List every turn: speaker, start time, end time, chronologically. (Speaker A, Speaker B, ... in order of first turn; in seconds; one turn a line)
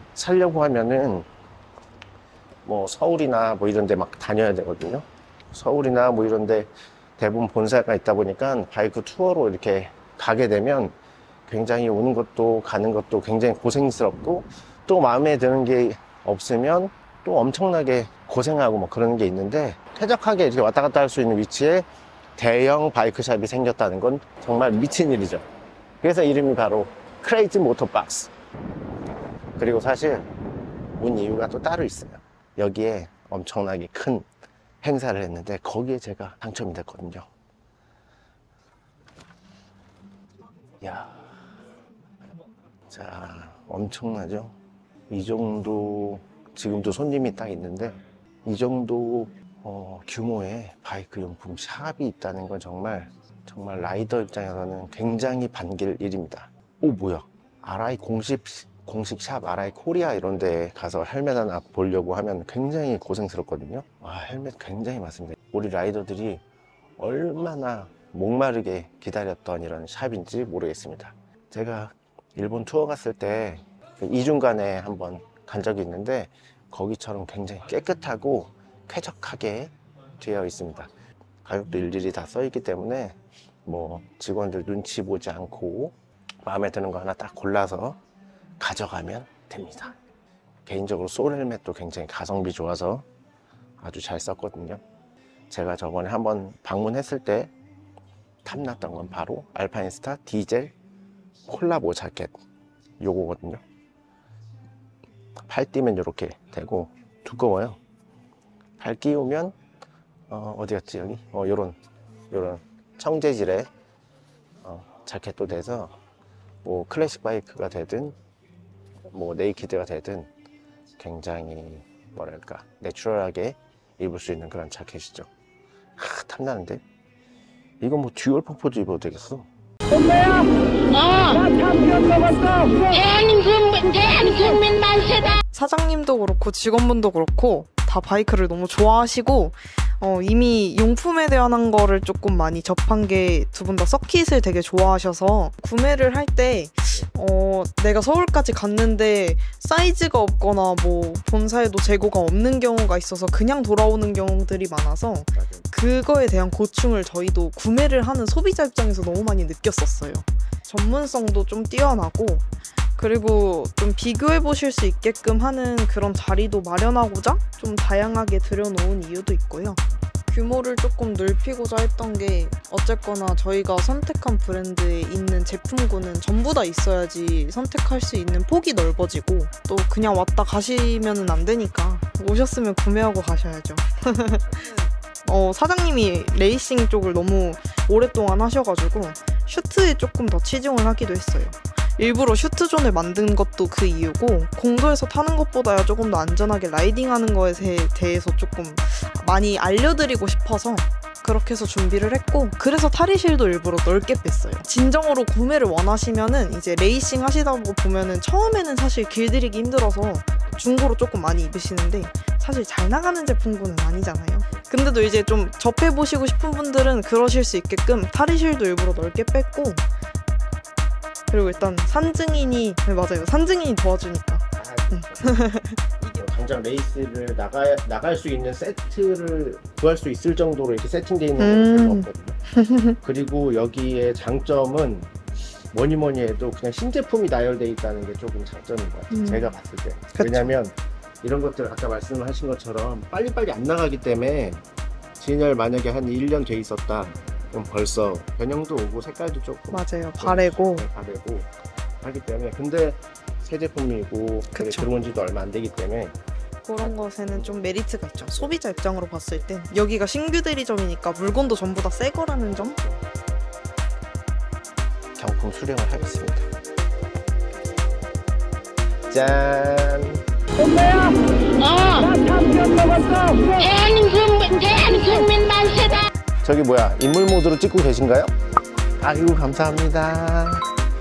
Speaker A: 0.1-1.3
Speaker A: 2.6-10.9
Speaker A: 11.5-21.9
Speaker A: 22.4-25.4
Speaker A: 26.0-28.3
Speaker A: 29.6-30.3
Speaker A: 30.9-34.2
Speaker A: 34.8-37.2
Speaker A: 40.8-41.2
Speaker A: 42.9-44.5
Speaker A: 45.1-66.4
Speaker A: 67.0-80.9
Speaker A: 81.4-85.9
Speaker A: 86.4-88.0
Speaker A: 88.6-90.0
Speaker A: 90.7-93.0
Speaker A: 93.8-94.8
Speaker A: 95.5-97.5
Speaker A: 98.4-100.7
Speaker A: 101.5-102.3
Speaker A: 103.0-103.6
Speaker A: 105.5-107.8
Speaker A: 108.8-109.5
Speaker A: 110.3-111.8
Speaker A: 112.3-113.7
Speaker A: 114.6-116.0
Speaker A: 116.6-118.2
Speaker A: 119.1-120.3
Speaker A: 121.0-125.3
Speaker A: 126.0-126.8
Speaker A: 127.8-129.5
Speaker B: 130.9-131.7
Speaker B: 132.7-135.3
Speaker C: 135.5-162.4
Speaker A: 155.3-155.7
Speaker C: 163.0-219.8
Speaker C: 221.3-226.2
Speaker A: 224.5-225.4
Speaker A: 226.2-232.4
Speaker C: 231.4-233.0
Speaker A: 233.0-235.1
Speaker A: 235.7-244.6
Speaker C: 239.1-239.5
Speaker C: 240.1-240.5
Speaker A: 245.2-251.5
Speaker C: 249.7-250.8
Speaker A: 252.0-256.1
Speaker C: 254.5-254.9
Speaker C: 256.6-262.8
Speaker A: 256.8-258.8
Speaker A: 265.2-266.5
Speaker A: 269.1-270.2
Speaker B: 271.6-272.2
Speaker C: 272.4-272.7
Speaker B: 273.4-276.0
Speaker A: 276.4-278.3
Speaker A: 279.0-280.6